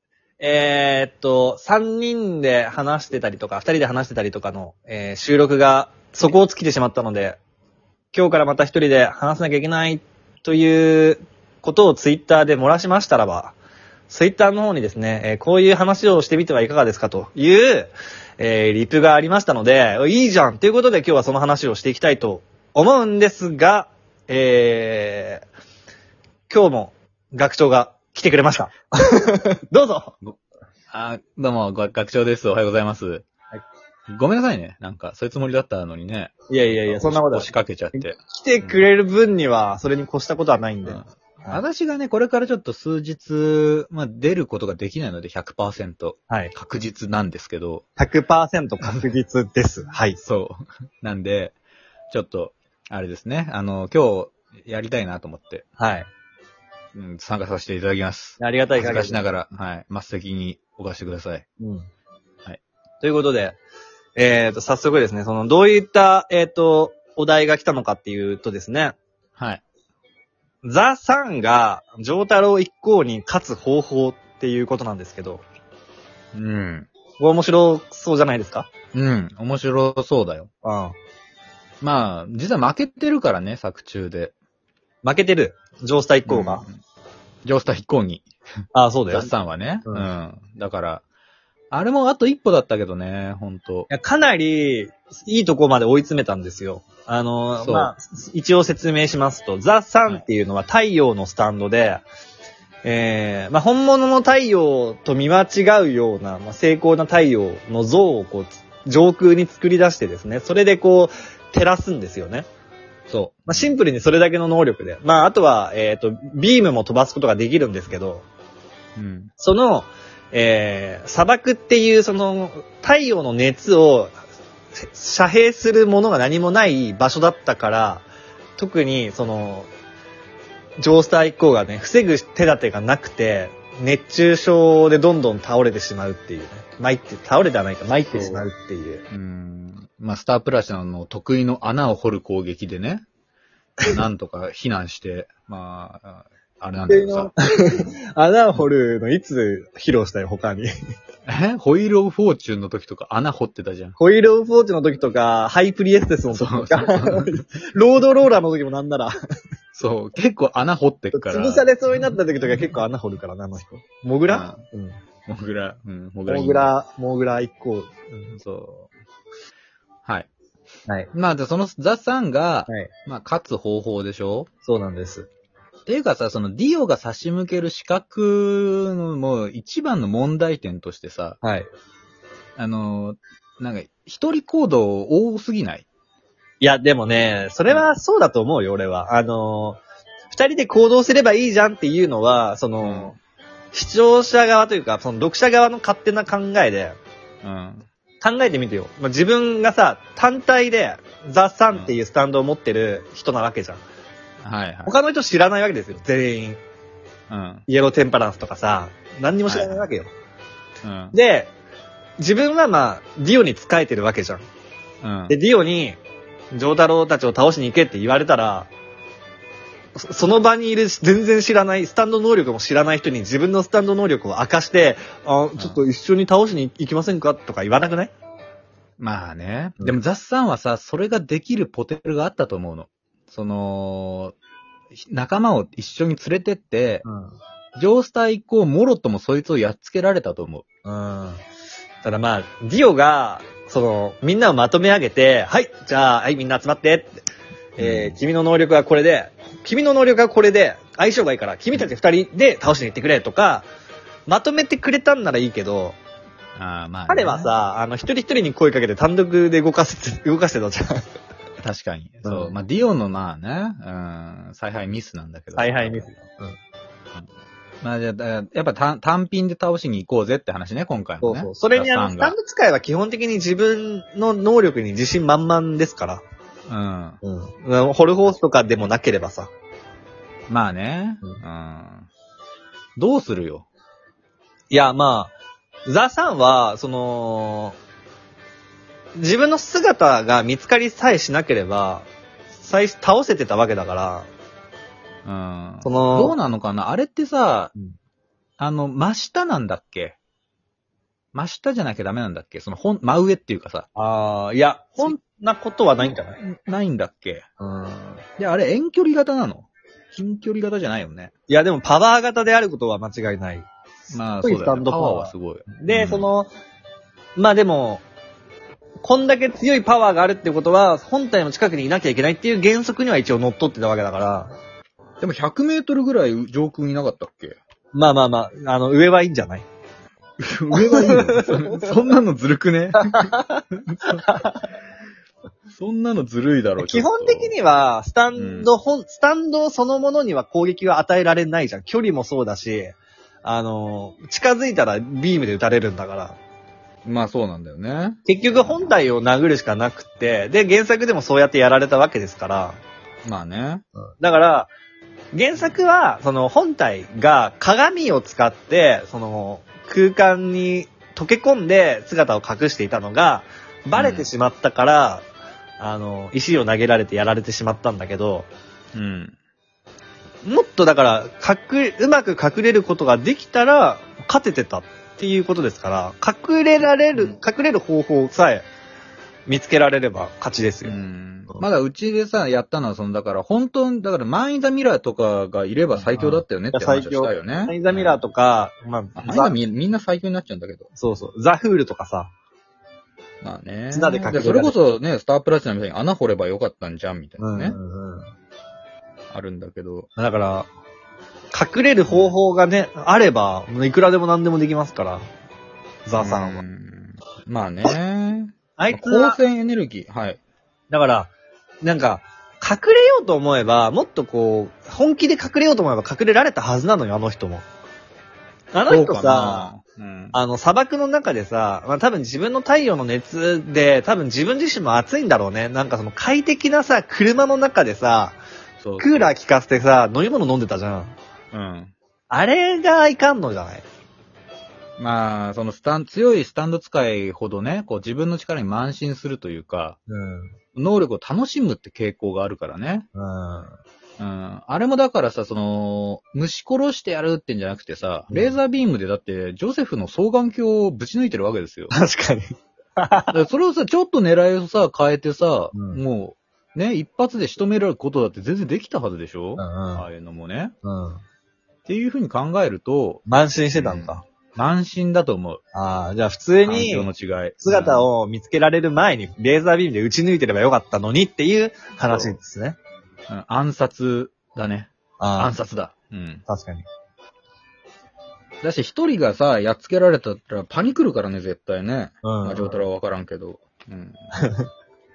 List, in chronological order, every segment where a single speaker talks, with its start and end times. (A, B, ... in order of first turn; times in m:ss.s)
0:00.4-0:07.4 A
0:08.1-0:13.6 A
0:14.1-0:25.4 A
0:26.5-0:30.2 A
0:30.9-0:33.2 B
0:34.1-0:38.9 B
0:36.5-0:41.6 A
0:40.8-0:47.8 B
0:48.0-0:50.2 A
0:50.2-0:51.5 B
0:52.1-0:55.6 B
0:55.8-0:56.1 A
0:56.9-1:01.4 B
0:58.4-0:59.2 A
1:01.6-1:01.9 A
1:03.0-1:03.6 A
1:04.2-1:09.0 A
1:09.4-1:09.6 B
1:10.6-1:15.4 A
1:16.3-1:16.9 B
1:17.2-1:18.7 A
1:18.9-1:20.5 B
1:20.6-1:20.9 A
1:21.8-1:24.3 B
1:25.0-1:26.6 A
1:26.3-1:26.7 B
1:27.4-1:28.3 B
1:28.7-1:29.3 A
1:29.1-1:31.0 B
1:31.7-1:33.9 B
1:33.9-1:42.0 A
1:37.6-1:37.9 B
1:42.8-1:52.5 A
1:53.1-1:53.8 B
1:53.5-1:58.2 A
1:59.0-1:59.3 B
1:59.4-2:04.2 A
2:04.8-2:08.0 A
2:08.6-2:09.7 A
2:10.8-2:19.0 A
2:18.1-2:18.5 B
2:19.1-2:23.0 B
2:23.8-2:27.3 B
2:26.9-2:30.7 A
2:31.2-2:34.0 B
2:34.0-2:39.1 A
2:36.3-2:37.4 B
2:39.7-2:41.7 B
2:41.1-2:45.0 A
2:44.3-2:44.6 B
2:45.3-2:46.7 B
2:46.3-2:48.4 A
2:48.3-2:48.9 B
2:51.1-2:54.5 B
2:54.6-2:55.3 A
2:55.9-3:01.4 B
3:01.4-3:01.7 A
3:02.6-3:05.8 B
3:06.6-3:09.8 A
3:10.3-3:13.2 A
3:12.8-3:13.2 B
3:13.7-3:17.0 A
3:17.4-3:17.9 B
3:18.2-3:23.8 A
3:24.4-3:24.9 B
3:24.8-3:26.6 A
3:27.3-3:27.6 B
3:27.7-3:30.1 A
3:29.5-3:29.9 B
3:30.8-3:31.1 B
3:31.1-3:31.5 A
3:32.2-3:34.4 A
3:35.0-3:35.4 B
3:35.3-3:36.0 A
3:36.5-3:38.7 A
3:39.9-3:48.1 A
3:45.6-3:45.8 B
3:49.0-3:54.3 B
3:54.9-3:57.0 B
3:57.0-3:57.3 A
3:57.8-4:00.6 B
4:00.8-4:01.4 A
4:02.0-4:07.2 A
4:07.8-4:13.7 A
4:07.8-4:08.2 B
4:14.3-4:16.0 A
4:16.6-4:17.5 B
4:17.1-4:21.1 A
4:21.6-4:26.1 B
4:22.2-4:22.6 A
4:25.6-4:26.6 A
4:27.8-4:32.3 B
4:31.2-4:36.2 A
4:36.7-4:37.2 B
4:37.2-4:39.5 A
4:40.5-4:42.1 B
4:43.0-4:43.6 B
4:44.7-4:45.3 A
4:45.8-4:47.8 A
4:49.1-4:52.1 A
4:52.6-4:54.3 A
4:55.2-4:57.7 B
4:55.8-4:56.4 A
4:58.6-5:00.2 B
5:01.3-5:03.9 B
5:04.0-5:06.4 A
5:06.0-5:07.4 B
5:07.6-5:08.2 A
5:08.4-5:11.3 B
5:11.5-5:16.5 A
5:14.1-5:16.3 B
5:17.4-5:18.0 A
5:19.0-5:24.5 A
5:25.2-5:27.6 B
5:27.9-5:29.6 A
5:30.4-5:34.2 B
5:30.7-5:31.8 A
5:33.0-5:33.6 A
5:34.1-5:34.7 A
5:35.7-5:37.5 B
5:36.8-5:46.4 A
5:38.3-5:38.7 B
5:47.0-5:49.0 B
5:48.2-5:52.8 A
5:53.2-5:53.8 B
5:54.2-5:54.7 A
5:55.3-6:05.2 A
6:04.0-6:04.3 B
6:05.8-6:08.5 A
6:08.9-6:09.3 B
6:10.4-6:18.6 A
6:19.5-6:21.0 A
6:20.8-6:28.2 B
6:25.9-6:29.5 A
6:29.2-6:30.9 B
6:31.0-6:32.3 A
6:33.4-6:37.8 B
6:33.9-6:34.7 A
6:37.4-6:38.3 A
6:39.3-6:40.1 B
6:40.2-6:40.7 A
6:41.5-6:45.2 A
6:42.1-6:42.3 B
6:46.0-6:46.6 A
6:46.2-6:50.4 B
6:48.8-6:49.4 A
6:50.9-6:51.3 A
6:51.8-6:57.6 A
6:58.7-6:59.7 A
6:58.9-7:00.4 B
7:00.3-7:08.4 A
7:08.8-7:09.3 B
7:09.0-7:11.1 A
7:11.5-7:11.9 B
7:12.3-7:13.8 A
7:15.0-7:20.0 B
7:20.1-7:20.5 A
7:20.8-7:23.1 B
7:23.1-7:23.8 A
7:24.2-7:31.9 B
7:28.3-7:28.6 A
7:31.9-7:33.4 A
7:33.3-7:40.7 B
7:35.7-7:36.0 A
7:39.6-7:40.1 A
7:40.8-7:41.2 A
7:41.8-7:43.2 B
7:43.2-7:44.2 A
7:43.8-7:45.6 B
7:45.7-7:47.1 A
7:46.6-7:48.1 B
7:47.6-7:52.8 A
7:52.1-7:52.3 B
7:53.3-7:56.4 B
7:55.2-7:55.5 A
7:56.5-7:56.8 A
7:58.6-8:04.2 B
8:02.2-8:02.8 A